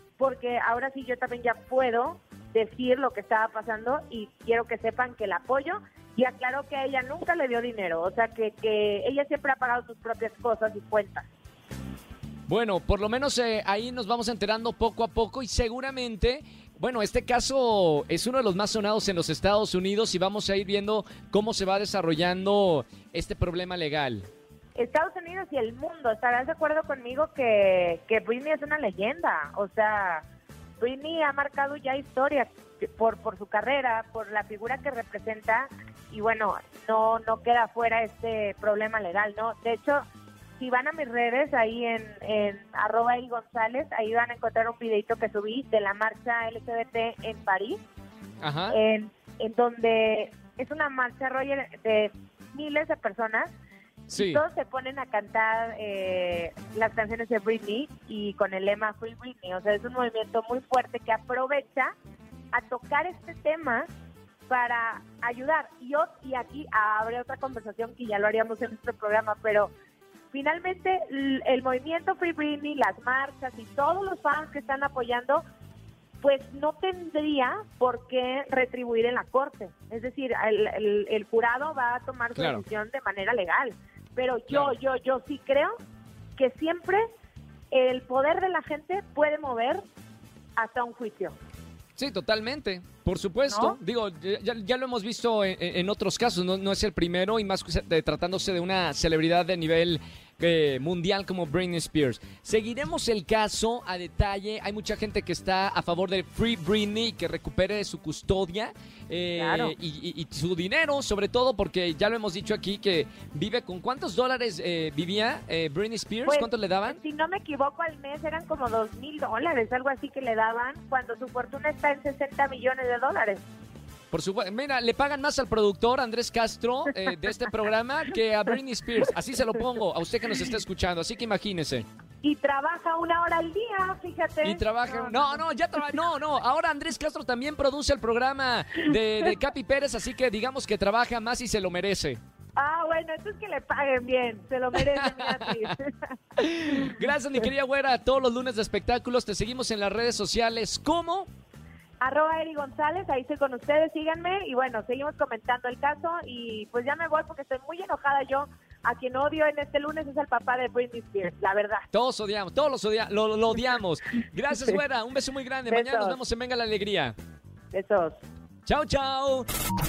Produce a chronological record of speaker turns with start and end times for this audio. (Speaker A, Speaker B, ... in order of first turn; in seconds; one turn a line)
Speaker A: 0.2-11.3
Speaker B: 12.5-24.2
Speaker A: 24.8-30.2
Speaker A: 30.8-40.0
Speaker A: 40.6-47.8
Speaker B: 48.4-48.8
Speaker A: 48.7-53.5
Speaker B: 54.1-54.4
Speaker A: 54.1-61.9
Speaker A: 62.5-63.9
Speaker A: 64.5-69.7
Speaker A: 70.3-75.4
Speaker A: 76.2-85.8
Speaker B: 82.3-82.6
Speaker B: 84.5-84.8
Speaker A: 86.4-87.0
Speaker A: 87.7-89.8
Speaker A: 90.6-91.3
Speaker B: 92.0-117.0
Speaker A: 93.5-93.8
Speaker A: 109.3-109.8
Speaker A: 116.2-123.4
Speaker B: 124.1-131.8
Speaker A: 132.2-136.0
Speaker B: 134.4-142.2
Speaker A: 142.6-146.1
Speaker B: 144.7-145.8
Speaker B: 146.3-151.3
Speaker A: 152.0-161.8
Speaker B: 161.9-167.1
Speaker A: 165.7-166.2
Speaker A: 167.7-168.2
Speaker B: 168.7-169.4